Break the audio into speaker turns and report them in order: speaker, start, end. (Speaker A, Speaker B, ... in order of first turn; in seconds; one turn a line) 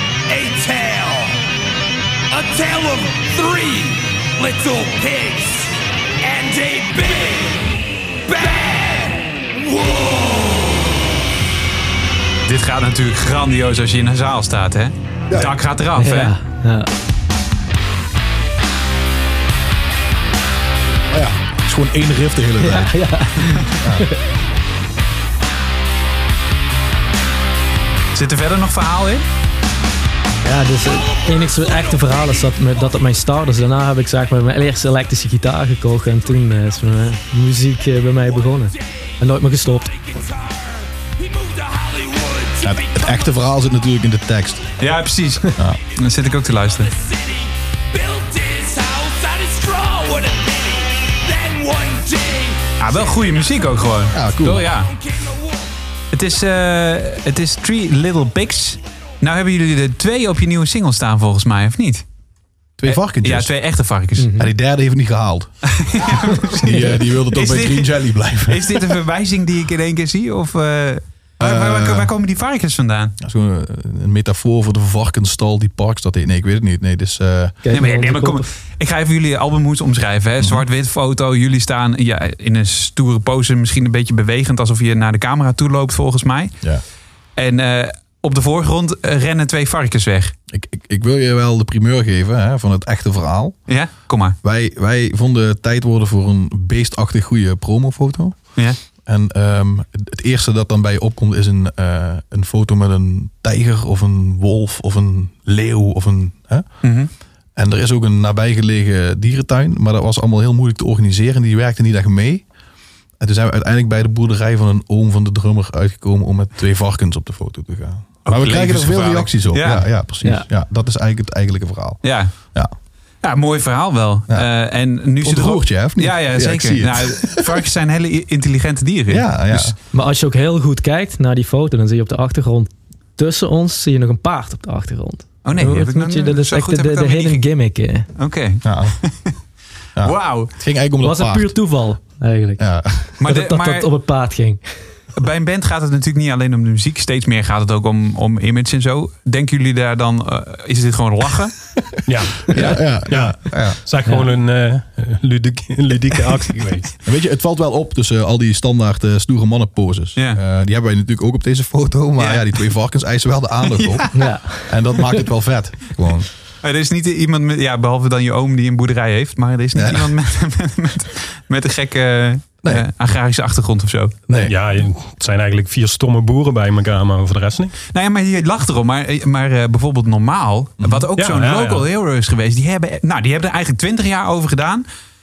Speaker A: 0.3-1.4
Speaker A: 2.4-5.7
Speaker A: 6.4-7.6
Speaker A: 8.4-10.7
Speaker B: 12.4-16.3
Speaker C: 15.3-15.6
Speaker D: 16.0-16.9
Speaker C: 21.1-22.9
Speaker D: 22.6-24.1
Speaker C: 23.8-24.1
Speaker B: 28.1-29.2
Speaker D: 30.4-40.2
Speaker A: 41.3-42.6
Speaker C: 42.6-44.6
Speaker B: 44.8-46.9
Speaker A: 48.3-48.6
Speaker A: 51.2-52.6
Speaker B: 52.8-54.9
Speaker C: 54.1-54.7
Speaker B: 56.1-62.0
Speaker C: 62.8-63.5
Speaker B: 62.8-64.3
Speaker D: 64.2-64.5
Speaker C: 64.3-69.0
Speaker B: 65.8-73.2
Speaker C: 71.4-72.1
Speaker C: 73.2-77.6
Speaker D: 77.6-78.5
Speaker B: 77.7-86.5
Speaker B: 87.3-90.3
Speaker C: 90.5-93.6
Speaker B: 93.7-94.3
Speaker C: 94.4-98.5
Speaker C: 99.0-106.7
Speaker B: 106.8-107.1
Speaker C: 107.5-112.4
Speaker C: 113.2-122.7
Speaker B: 118.2-119.9
Speaker B: 122.0-122.3
Speaker B: 123.2-129.7
Speaker C: 125.2-127.7
Speaker C: 129.1-129.8
Speaker D: 129.9-138.1
Speaker B: 135.4-137.5
Speaker B: 138.2-139.3
Speaker C: 138.6-139.0
Speaker B: 140.0-140.5
Speaker C: 140.0-141.5
Speaker D: 141.0-144.6
Speaker C: 142.6-143.2
Speaker B: 143.2-143.9
Speaker B: 145.2-151.6
Speaker E: 152.1-156.9
Speaker B: 152.5-152.8
Speaker C: 152.5-153.8
Speaker C: 157.0-166.3
Speaker B: 162.2-162.6
Speaker B: 163.6-164.3
Speaker D: 164.1-164.7
Speaker B: 166.6-174.2
Speaker C: 169.7-170.1
Speaker C: 174.3-174.5
Speaker E: 174.4-177.8
Speaker B: 177.9-184.8
Speaker C: 180.8-181.1
Speaker E: 181.2-181.8